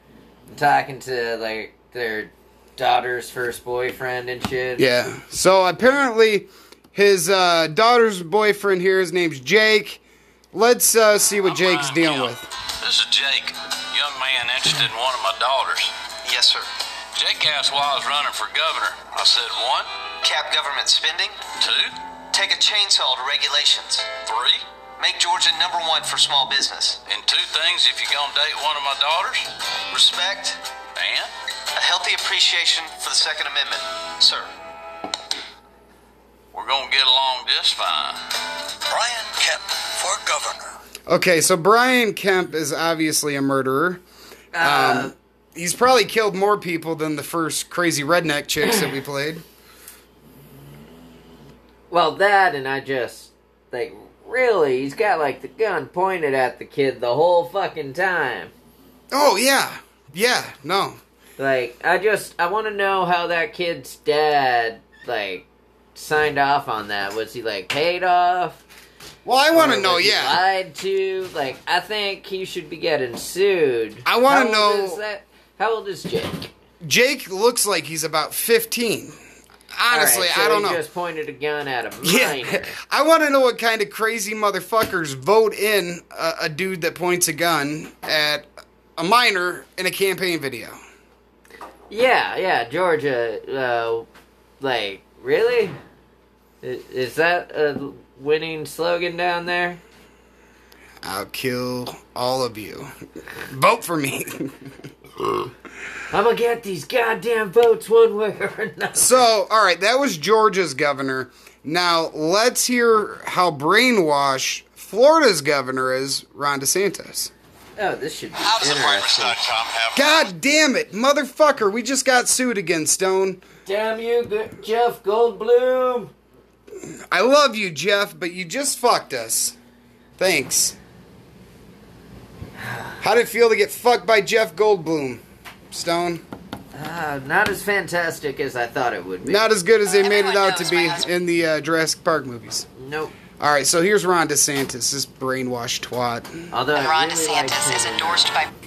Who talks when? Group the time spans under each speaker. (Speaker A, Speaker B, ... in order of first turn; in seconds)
Speaker A: 0.5-4.9, 44.5-45.1, 51.9-58.5, 61.4-68.6, 69.5-76.5, 79.9-82.8, 91.9-94.1, 94.6-95.8, 96.6-99.8, 106.1-109.3, 117.8-119.5, 123.7-126.1, 132.6-133.0, 136.7-139.4, 142.8-143.1, 146.5-148.3
Speaker B: 4.8-10.0, 10.5-12.5, 41.1-44.0, 44.6-49.4, 59.1-61.0, 69.2-70.4, 74.0-75.0, 76.8-79.2, 79.7-80.8, 82.0-90.8, 101.0-102.9, 103.5-104.5, 109.0-117.3, 120.0-123.4, 127.1-129.6, 130.2-130.8, 133.0-136.2, 139.2-142.7, 143.4-146.5
Speaker C: 11.4-15.9, 17.2-19.9, 21.6-22.0, 24.2-24.6, 27.1-29.5, 31.0-31.3, 36.5-38.2, 38.9-40.6, 118.4-120.3
Speaker D: 16.2-16.7, 20.2-21.4, 22.3-24.1, 25.0-27.0, 29.9-30.6, 31.8-34.5
Speaker E: 139.9-141.1, 146.7-148.5